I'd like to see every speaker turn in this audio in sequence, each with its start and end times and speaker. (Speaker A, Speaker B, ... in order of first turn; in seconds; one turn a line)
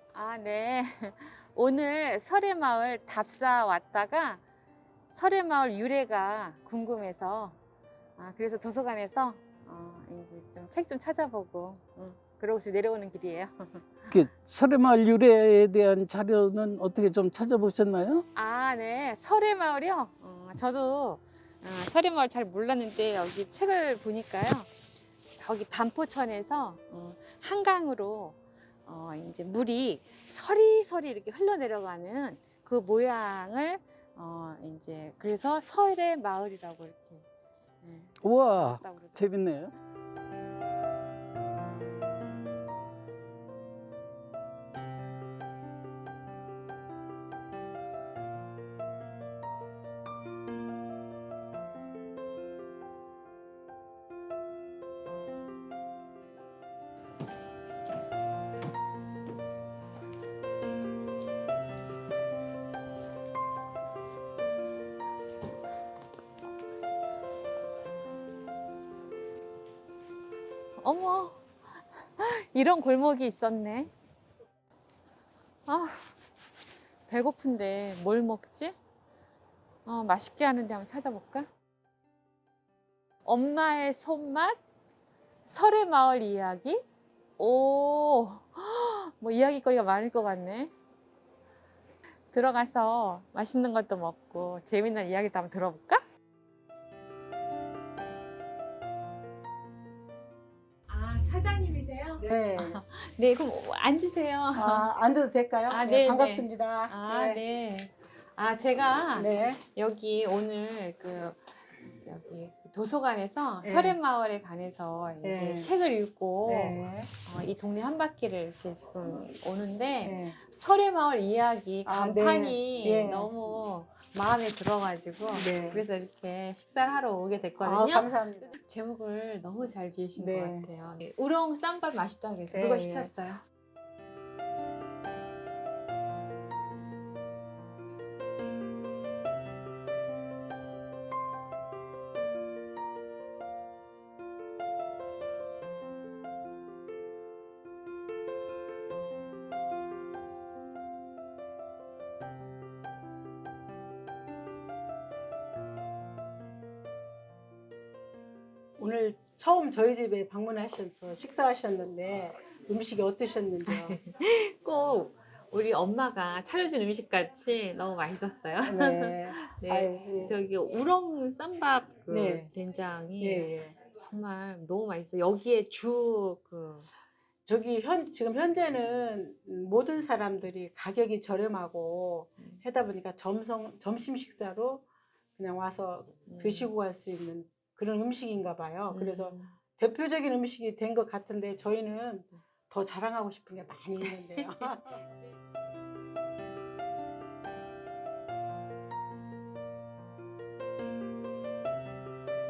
Speaker A: 0.1-4.4
Speaker A: 5.1-7.6
Speaker A: 8.2-14.1
Speaker B: 14.1-18.2
Speaker A: 18.3-24.7
Speaker A: 25.3-37.2
Speaker A: 37.8-39.3
Speaker B: 38.2-39.7
Speaker A: 70.8-71.4
Speaker A: 72.2-73.9
Speaker A: 75.7-76.1
Speaker A: 77.1-78.8
Speaker A: 79.8-81.5
Speaker A: 83.2-84.6
Speaker A: 85.5-86.8
Speaker A: 87.4-90.7
Speaker A: 92.3-96.0
Speaker A: 100.9-104.9
Speaker C: 102.2-102.8
Speaker C: 104.5-107.4
Speaker A: 105.7-111.4
Speaker C: 109.2-109.6
Speaker A: 112.0-133.4
Speaker C: 113.6-114.0
Speaker C: 115.2-115.7
Speaker C: 116.5-117.1
Speaker C: 120.0-120.3
Speaker C: 121.8-123.3
Speaker C: 125.3-125.8
Speaker C: 127.6-128.5
Speaker C: 130.2-130.7
Speaker C: 132.5-133.1
Speaker C: 158.8-164.0
Speaker A: 163.7-176.9
Speaker C: 168.6-170.3
Speaker C: 172.1-172.5
Speaker C: 173.2-173.7
Speaker C: 177.4-184.8
Speaker C: 185.4-195.0
Speaker A: 186.3-186.7
Speaker A: 188.9-189.6
Speaker A: 194.0-195.3